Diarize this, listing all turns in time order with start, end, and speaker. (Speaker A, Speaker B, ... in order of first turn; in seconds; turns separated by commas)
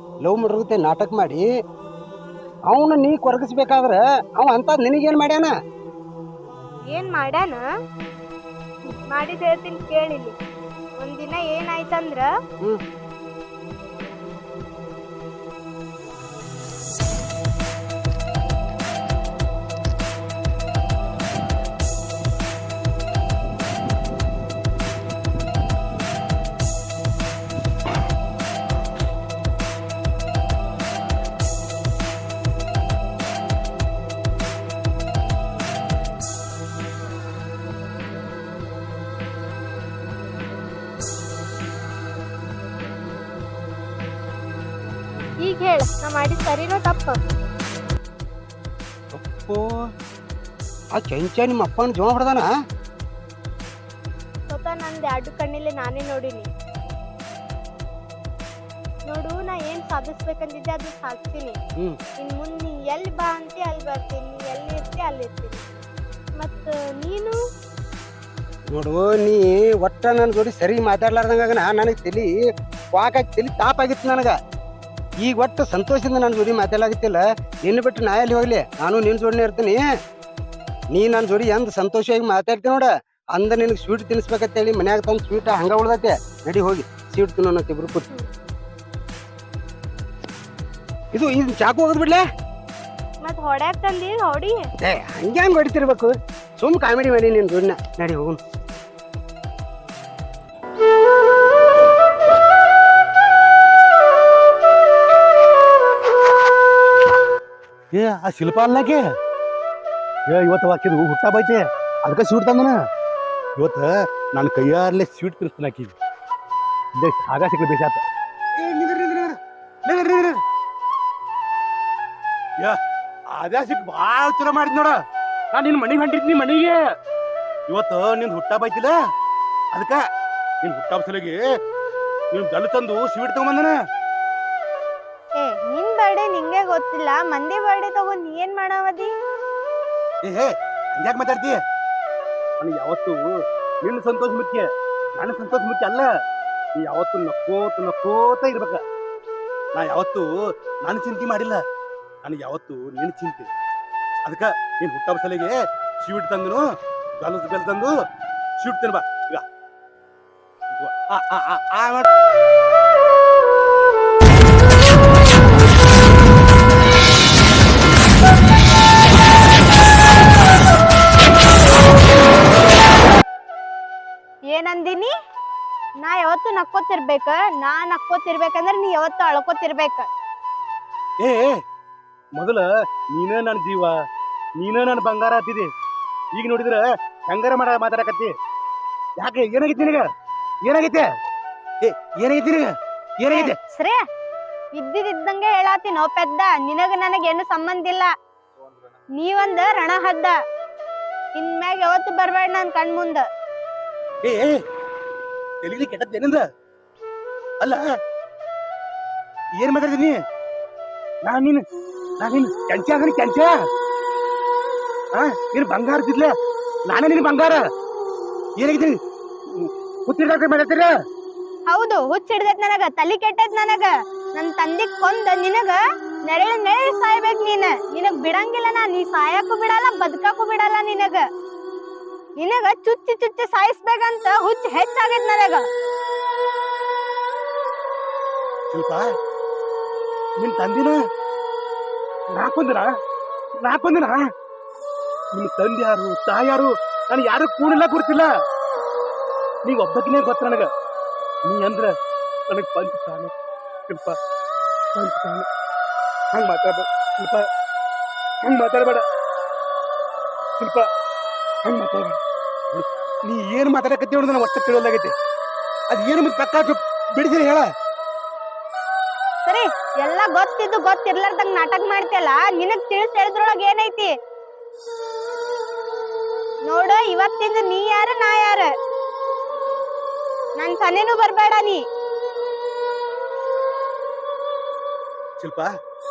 Speaker A: 0.2-1.4, Speaker A: 2.7-5.5, Speaker B: 6.9-7.6, Speaker B: 9.1-10.3, Speaker B: 11.0-12.3, Speaker B: 45.4-47.2, Speaker A: 49.1-49.7, Speaker A: 50.9-52.5, Speaker B: 54.5-56.5, Speaker B: 59.1-61.6, Speaker B: 62.2-65.8, Speaker B: 66.3-67.3, Speaker A: 68.7-72.3, Speaker A: 72.9-74.4, Speaker A: 75.2-79.8, Speaker A: 80.9-88.1, Speaker A: 91.1-92.2, Speaker B: 93.2-94.7, Speaker A: 94.8-98.4, Speaker C: 107.9-109.0, Speaker C: 110.3-112.8, Speaker C: 113.6-115.9, Speaker C: 117.0-118.0, Speaker C: 118.5-120.4, Speaker C: 123.3-125.0, Speaker C: 125.5-126.8, Speaker C: 127.7-128.9, Speaker C: 129.7-130.0, Speaker C: 130.6-131.4, Speaker C: 132.3-133.7, Speaker B: 135.4-139.1, Speaker C: 140.2-141.6, Speaker C: 142.6-143.2, Speaker C: 143.8-144.7, Speaker C: 145.2-146.1, Speaker C: 146.8-148.8, Speaker C: 149.7-150.3, Speaker C: 150.8-151.6, Speaker C: 152.2-153.5, Speaker C: 154.2-156.6, Speaker C: 157.2-157.9, Speaker C: 158.6-159.4, Speaker C: 160.7-162.1, Speaker B: 174.5-175.1, Speaker B: 176.0-180.1, Speaker C: 181.2-181.5, Speaker C: 182.4-183.9, Speaker C: 184.6-185.7, Speaker C: 186.3-188.3, Speaker C: 189.2-190.1, Speaker C: 190.6-191.0, Speaker C: 191.8-193.6, Speaker B: 193.3-194.0, Speaker B: 194.7-198.1, Speaker B: 199.2-200.3, Speaker B: 201.4-203.2, Speaker C: 204.2-204.6, Speaker C: 205.6-206.4, Speaker C: 209.6-210.2, Speaker C: 211.2-211.6, Speaker C: 212.2-213.5, Speaker C: 215.1-216.3, Speaker C: 216.9-217.6, Speaker C: 218.6-218.9, Speaker C: 219.5-220.9, Speaker B: 221.7-231.2, Speaker B: 232.4-235.7, Speaker C: 238.7-239.1, Speaker C: 240.4-241.0, Speaker C: 242.3-242.9, Speaker C: 243.6-244.2, Speaker C: 245.3-248.3, Speaker C: 249.6-250.7, Speaker C: 251.4-251.9, Speaker C: 252.5-253.3, Speaker C: 253.9-254.2, Speaker C: 254.9-255.5, Speaker C: 256.3-257.5, Speaker C: 258.4-259.0, Speaker C: 260.6-260.8, Speaker C: 261.6-262.2, Speaker C: 262.7-265.1, Speaker C: 265.9-267.7, Speaker B: 269.4-274.1, Speaker B: 276.7-278.7, Speaker B: 280.6-281.8, Speaker C: 285.4-285.7